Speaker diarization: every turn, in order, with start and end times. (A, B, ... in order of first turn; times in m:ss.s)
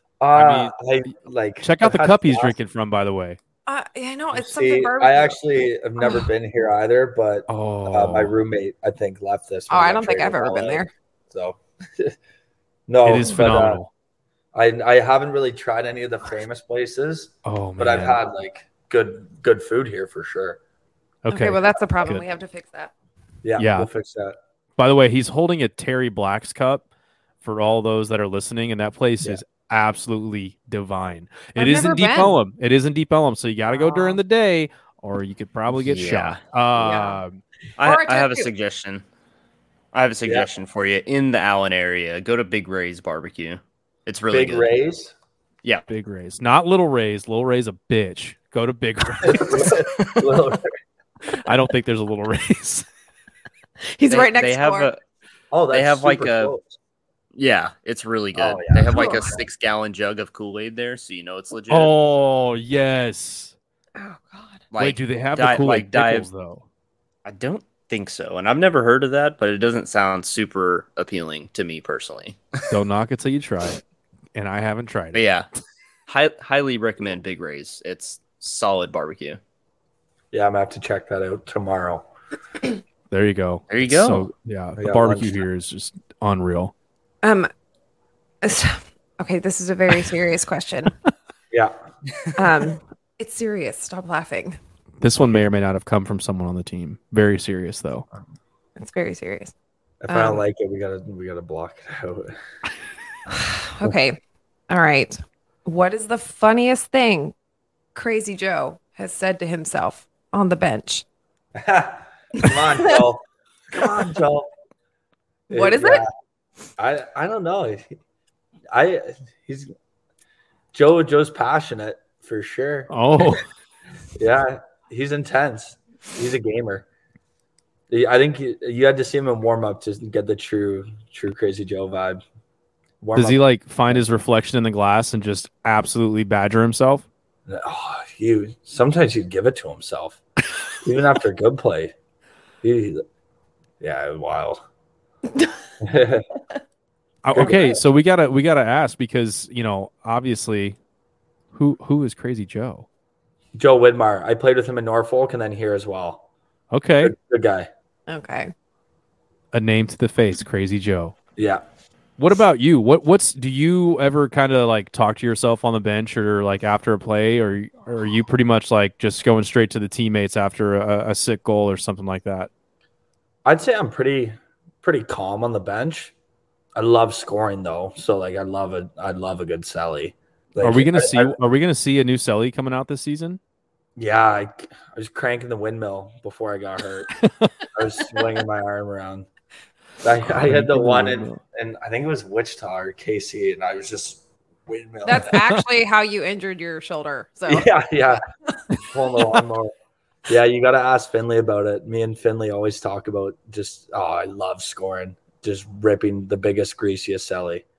0:00.2-0:02.6 A
0:00.3-0:00.7 B
0:01.6-0:03.4 B
0:03.7-0:05.4 C
0:04.3-0:12.2 A
0:06.0-0:06.3 C
0:07.5-0:08.3 B
0:09.7-0:10.9 C
0:12.9-0:13.8 A
0:13.0-0:13.9 B
0:14.5-0:20.6 A
0:17.4-0:18.2 B
0:21.2-0:22.2 B
0:21.3-0:22.9 C
0:23.4-0:24.4 A
0:23.6-0:23.9 B
0:24.8-0:26.8 B
0:27.4-0:37.4 B
0:31.6-0:32.4 C
0:33.7-0:34.2 C
0:35.7-0:36.4 D
0:36.8-0:37.2 C
0:37.8-0:39.0 D
0:37.8-0:38.5 C
0:39.9-0:44.7 D
0:44.3-0:45.1 A
0:45.9-0:49.8 B
0:49.2-0:50.7 A
0:50.0-0:50.3 D
0:51.3-0:52.9 B
0:53.9-0:54.9 C
0:54.1-0:55.0 D
0:55.5-0:56.8 A
0:55.7-0:56.5 D
0:57.3-1:01.9 D
0:58.4-0:59.1 A
0:58.9-0:59.4 C
1:01.7-1:03.6 B
1:04.0-1:04.6 C
1:04.7-1:06.3 D
1:04.8-1:06.6 B
1:07.2-1:12.6 D
1:12.7-1:13.8 B
1:14.3-1:15.2 B
1:15.1-1:15.5 D
1:16.1-1:19.4 D
1:20.3-1:22.1 A
1:23.1-1:26.7 B
1:23.7-1:24.3 D
1:24.8-1:25.4 A
1:27.2-1:27.5 C
1:28.4-1:30.9 C
1:31.5-1:31.8 A
1:32.4-1:34.6 C
1:35.0-1:38.1 B
1:38.8-1:39.5 C
1:40.0-1:42.4 A
1:40.1-1:40.4 C
1:43.3-1:44.2 C
1:44.7-1:47.3 C
1:48.0-1:51.0 C
1:51.6-1:54.5 A
1:52.4-1:53.0 C
1:55.5-1:56.1 A
1:55.5-1:56.0 C
1:56.8-1:57.9 A
1:58.7-1:59.7 A
2:00.7-2:03.4 A
2:02.9-2:03.5 B
2:04.2-2:06.9 A
2:07.9-2:12.2 A
2:13.0-2:14.0 A
2:13.2-2:17.1 B
2:17.5-2:20.2 A
2:20.8-2:21.9 A
2:22.6-2:23.0 A
2:23.8-2:24.6 A
2:25.8-2:26.2 A
2:27.2-2:30.8 B
2:27.4-2:27.8 A
2:31.5-2:32.9 B
2:33.6-2:36.2 A
2:36.7-2:37.1 B
2:37.0-2:37.7 A
2:38.1-2:38.5 C
2:39.5-2:41.2 B
2:41.4-2:41.6 A
2:42.2-2:52.5 B
2:53.5-2:56.1 A
2:56.8-3:01.4 A
3:00.6-3:03.4 B
3:04.0-3:07.2 A
3:07.2-3:07.5 B
3:07.7-3:09.3 A
3:10.0-3:15.5 A
3:10.3-3:11.4 B
3:15.0-3:17.7 C
3:15.3-3:15.6 B
3:17.5-3:18.2 A
3:18.8-3:19.7 A
3:20.3-3:27.6 A